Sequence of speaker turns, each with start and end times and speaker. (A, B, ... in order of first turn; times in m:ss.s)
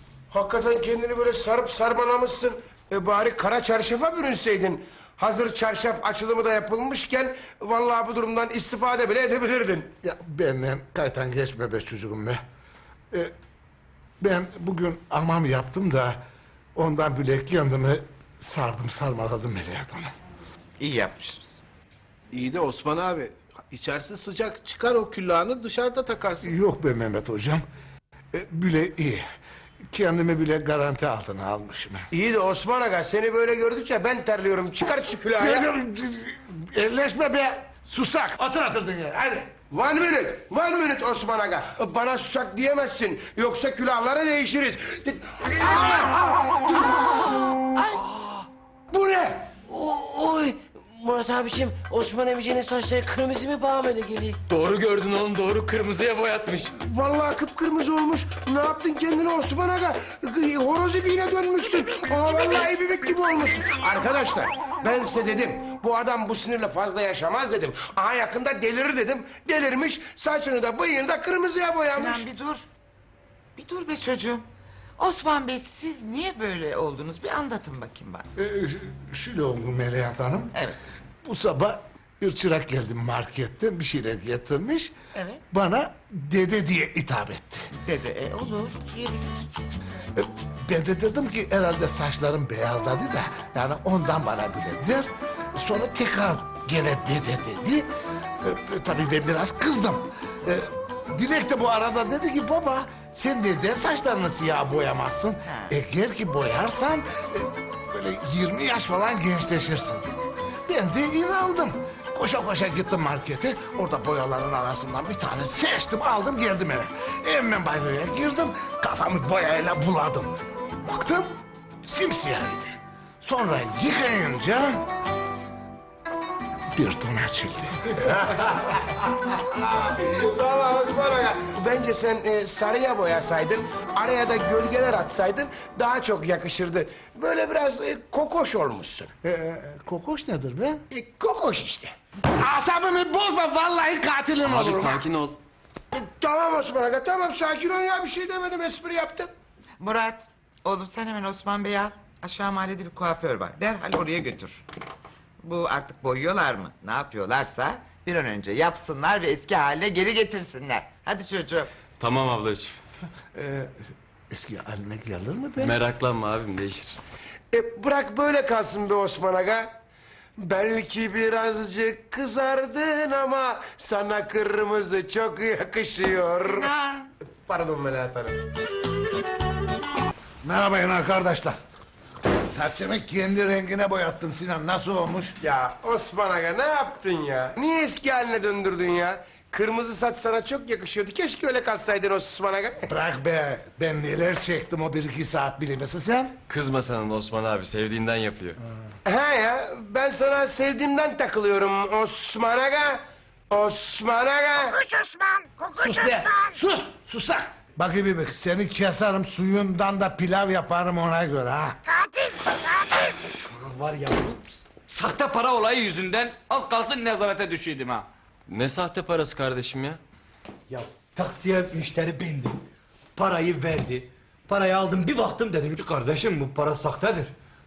0:00.3-0:09.9 A
0:10.0-0:12.4 B
0:14.2-0:16.2 B
0:16.8-0:20.1 B
0:20.8-0:21.6 C
0:22.3-0:26.5 D
0:26.4-0:27.6 B
0:28.3-0:29.2 B
0:29.9-0:32.1 B
0:32.1-0:35.7 A
0:35.4-0:39.5 B
0:39.7-0:46.0 A
0:48.9-0:49.5 A
0:49.6-0:54.4 E
0:55.3-0:55.7 E
0:56.7-1:12.3 A
1:11.9-1:12.6 C
1:13.6-1:14.4 C
1:15.0-1:18.2 C
1:18.4-1:20.5 B
1:21.2-1:24.9 B
1:25.1-1:25.4 C
1:25.5-1:27.7 B
1:27.8-1:29.3 C
1:30.2-1:37.9 B
1:38.4-2:04.8 B
2:06.7-2:07.9 B
2:08.0-2:08.8 A
2:09.4-2:19.1 A
2:19.2-2:20.8 B
2:20.9-2:21.9 A
2:22.4-2:25.1 B
2:24.4-2:25.4 F
2:25.9-2:29.3 A
2:29.8-2:34.6 C
2:35.4-2:41.7 C
2:42.0-2:42.8 F
2:43.3-2:43.8 B
2:44.3-2:45.8 B
2:45.6-2:47.0 F
2:47.5-2:49.7 A
2:50.4-2:56.7 A
2:56.4-2:57.1 C
2:57.5-2:58.4 A
3:00.4-3:01.6 B
3:02.4-3:05.4 B
3:05.4-3:12.8 A
3:12.9-3:16.4 B
3:16.5-3:18.6 F
3:19.0-3:24.8 A
3:25.8-3:31.8 B
3:33.5-3:38.0 G
3:38.5-3:40.0 F
3:40.7-3:42.6 G
3:43.2-3:47.3 G